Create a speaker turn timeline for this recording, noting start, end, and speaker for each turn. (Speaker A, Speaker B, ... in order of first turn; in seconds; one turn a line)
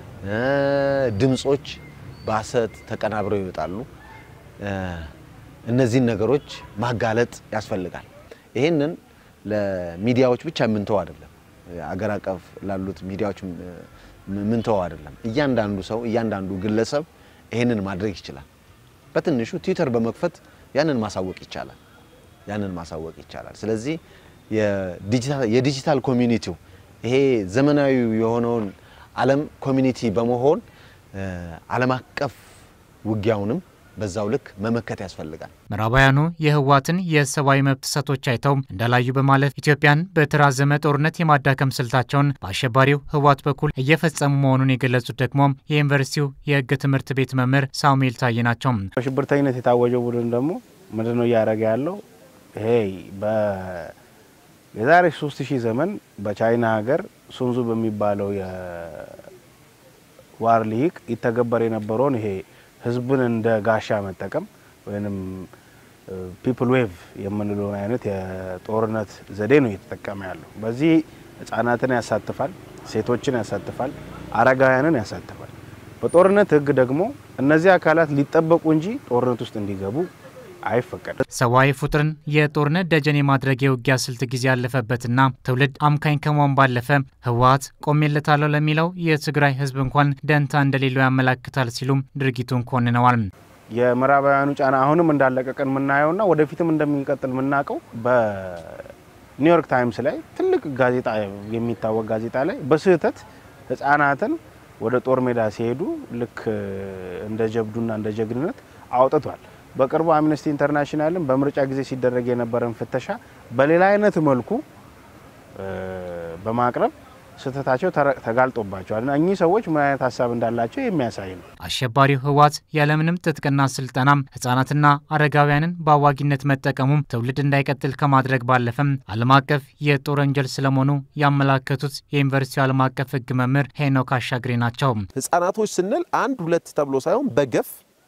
Speaker A: 0.2-3.9
Speaker A: 4.6-5.1
Speaker A: 5.7-18.5
Speaker A: 19.1-21.8
Speaker A: 22.5-24.0
Speaker A: 24.5-30.6
Speaker A: 31.1-32.4
Speaker A: 33.0-35.5
Speaker B: 35.7-48.9
Speaker C: 49.0-52.0
Speaker C: 52.6-53.9
Speaker C: 54.8-59.2
Speaker C: 60.4-65.5
Speaker C: 66.1-80.1
Speaker C: 80.7-81.2
Speaker B: 81.3-93.3
Speaker C: 93.7-114.6
Speaker C: 115.6-121.5
Speaker B: 121.6-135.1
Speaker D: 135.2-137.8